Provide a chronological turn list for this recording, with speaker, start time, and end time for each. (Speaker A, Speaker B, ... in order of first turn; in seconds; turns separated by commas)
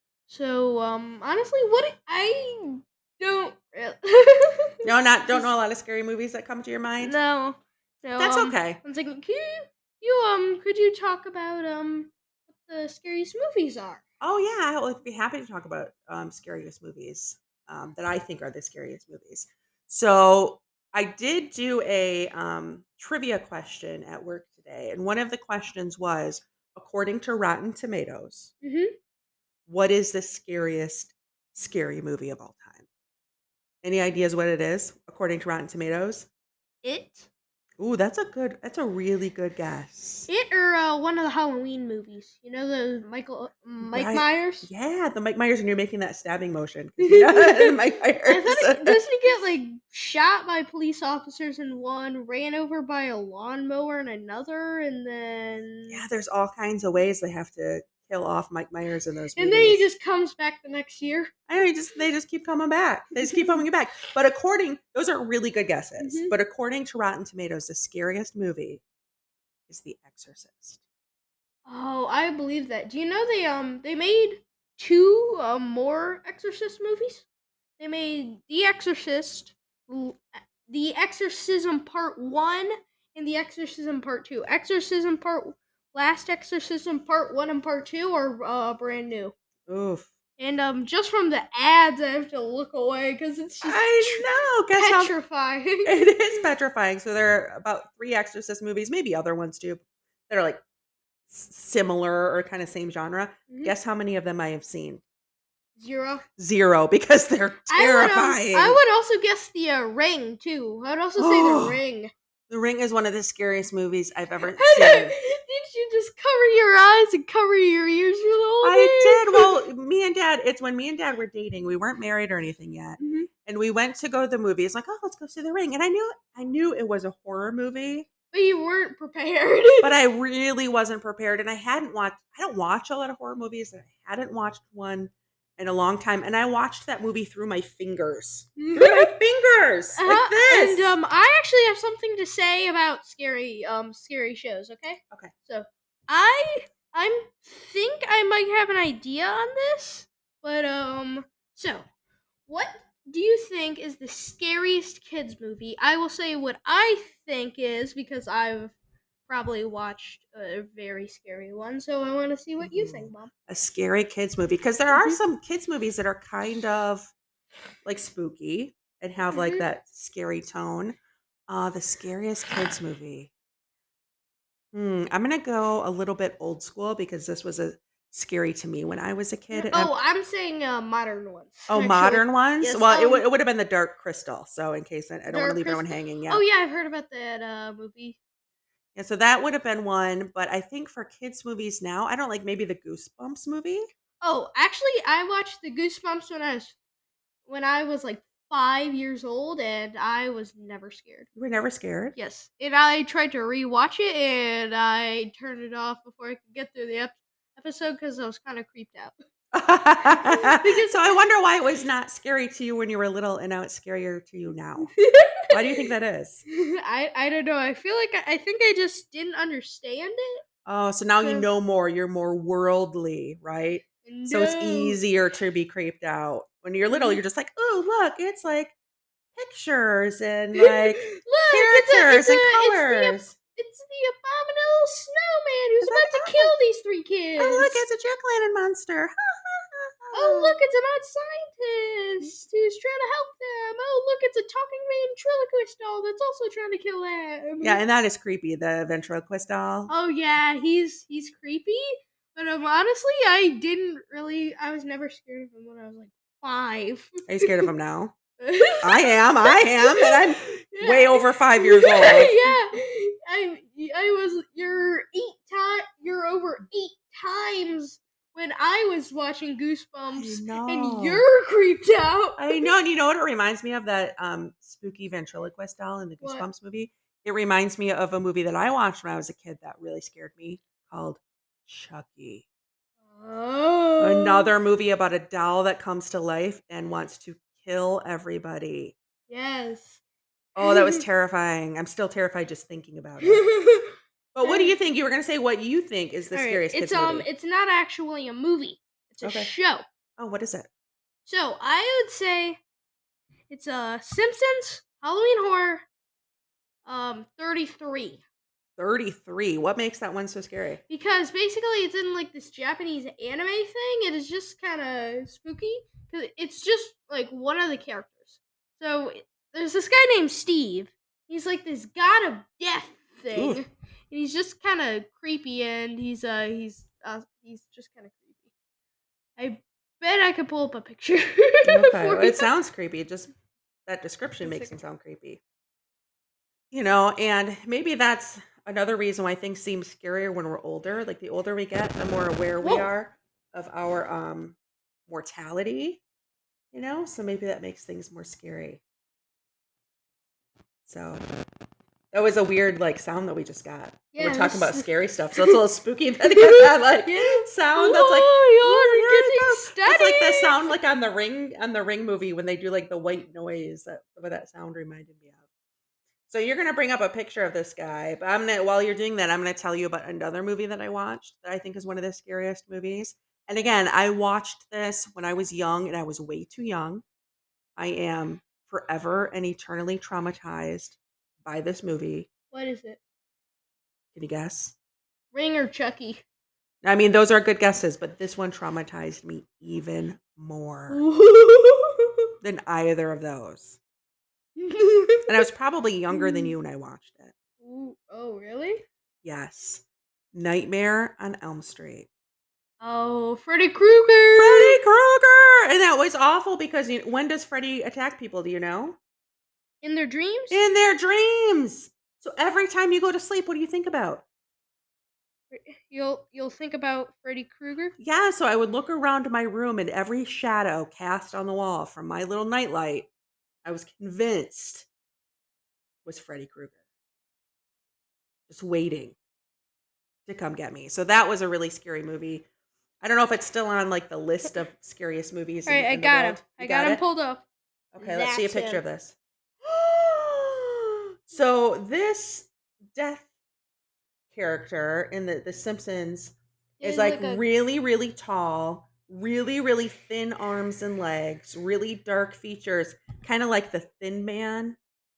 Speaker A: 0.3-5.5, Speaker B: 4.8-7.2, Speaker A: 7.0-14.0, Speaker B: 8.2-8.8, Speaker B: 14.2-28.5, Speaker A: 28.6-28.9, Speaker B: 29.7-32.9, Speaker B: 33.8-36.3, Speaker A: 36.8-37.3, Speaker B: 37.8-40.3, Speaker A: 40.3-44.7, Speaker B: 43.8-49.0, Speaker A: 47.0-56.0, Speaker B: 55.9-59.8, Speaker A: 59.4-61.3, Speaker B: 61.5-68.8, Speaker A: 63.2-63.5, Speaker A: 66.0-66.3, Speaker B: 69.7-70.8, Speaker A: 71.7-77.3, Speaker A: 77.8-89.3, Speaker B: 89.7-90.1, Speaker A: 90.4-96.1, Speaker B: 93.6-95.2, Speaker B: 95.8-100.6, Speaker B: 101.3-105.0, Speaker A: 103.5-103.7, Speaker A: 105.8-106.2, Speaker B: 106.4-108.8, Speaker A: 107.7-112.1, Speaker B: 111.2-111.8, Speaker B: 112.5-115.2, Speaker A: 114.5-119.5, Speaker B: 118.6-128.1, Speaker A: 123.0-123.3, Speaker A: 128.3-129.9, Speaker B: 129.8-140.9, Speaker A: 138.6-139.1, Speaker A: 140.0-151.9, Speaker A: 152.5-158.8, Speaker A: 159.3-163.3, Speaker B: 162.6-167.1, Speaker A: 164.9-165.2, Speaker B: 167.8-171.0, Speaker A: 169.3-169.6, Speaker B: 171.5-173.3, Speaker B: 174.7-179.9, Speaker A: 179.5-183.3, Speaker B: 181.7-186.4, Speaker A: 185.3-188.2, Speaker B: 188.9-193.9, Speaker A: 194.2-196.8, Speaker A: 197.5-201.3, Speaker B: 201.4-202.2, Speaker A: 202.2-209.2, Speaker B: 209.5-214.9, Speaker A: 210.1-211.2, Speaker A: 214.9-215.8, Speaker B: 215.5-216.4, Speaker A: 216.5-220.4, Speaker B: 220.7-228.8, Speaker A: 221.2-221.5, Speaker A: 224.0-225.0, Speaker A: 226.9-227.2, Speaker B: 229.3-233.4, Speaker A: 230.6-237.8, Speaker B: 235.8-236.5, Speaker B: 237.4-240.6, Speaker A: 240.1-247.8, Speaker B: 247.6-249.9, Speaker A: 249.9-257.7, Speaker B: 257.3-258.1, Speaker A: 258.4-272.7, Speaker B: 258.8-262.4, Speaker B: 270.1-271.2, Speaker B: 272.4-282.4, Speaker A: 276.2-276.5, Speaker A: 283.1-284.5, Speaker B: 284.0-288.9, Speaker A: 289.3-290.0, Speaker B: 290.6-293.5, Speaker A: 290.6-291.0, Speaker A: 293.2-294.8, Speaker B: 294.4-297.3, Speaker A: 296.3-299.8, Speaker B: 299.2-299.5, Speaker B: 300.2-300.7, Speaker A: 301.2-302.6, Speaker A: 303.5-305.9, Speaker A: 306.9-308.2, Speaker B: 308.8-310.8, Speaker A: 310.9-328.4, Speaker B: 323.3-323.6, Speaker A: 329.4-332.5, Speaker B: 331.6-333.3, Speaker B: 333.9-335.4, Speaker A: 334.4-334.8, Speaker B: 336.7-344.6, Speaker A: 342.6-342.9, Speaker B: 345.1-346.0, Speaker B: 346.7-348.8, Speaker B: 350.9-351.2, Speaker B: 352.1-365.4, Speaker A: 354.1-355.6, Speaker A: 356.3-360.7, Speaker B: 366.3-377.0, Speaker B: 377.8-382.3, Speaker A: 382.5-383.0, Speaker B: 384.1-384.8, Speaker A: 385.3-386.2, Speaker B: 386.8-391.0, Speaker A: 390.9-392.2, Speaker B: 392.4-393.8, Speaker A: 394.6-395.4, Speaker B: 395.3-397.3, Speaker A: 396.1-396.6, Speaker A: 397.6-398.8, Speaker B: 399.2-402.1, Speaker A: 402.8-404.8, Speaker B: 404.4-409.0, Speaker A: 409.8-410.6, Speaker B: 410.5-414.2, Speaker A: 415.5-417.9, Speaker B: 418.0-423.1, Speaker B: 423.6-424.9, Speaker B: 426.1-426.8, Speaker B: 428.5-429.2, Speaker B: 430.3-432.5, Speaker B: 433.0-437.0, Speaker A: 435.7-437.4, Speaker B: 437.9-443.3, Speaker A: 438.0-438.8, Speaker B: 444.3-454.8, Speaker A: 446.8-447.4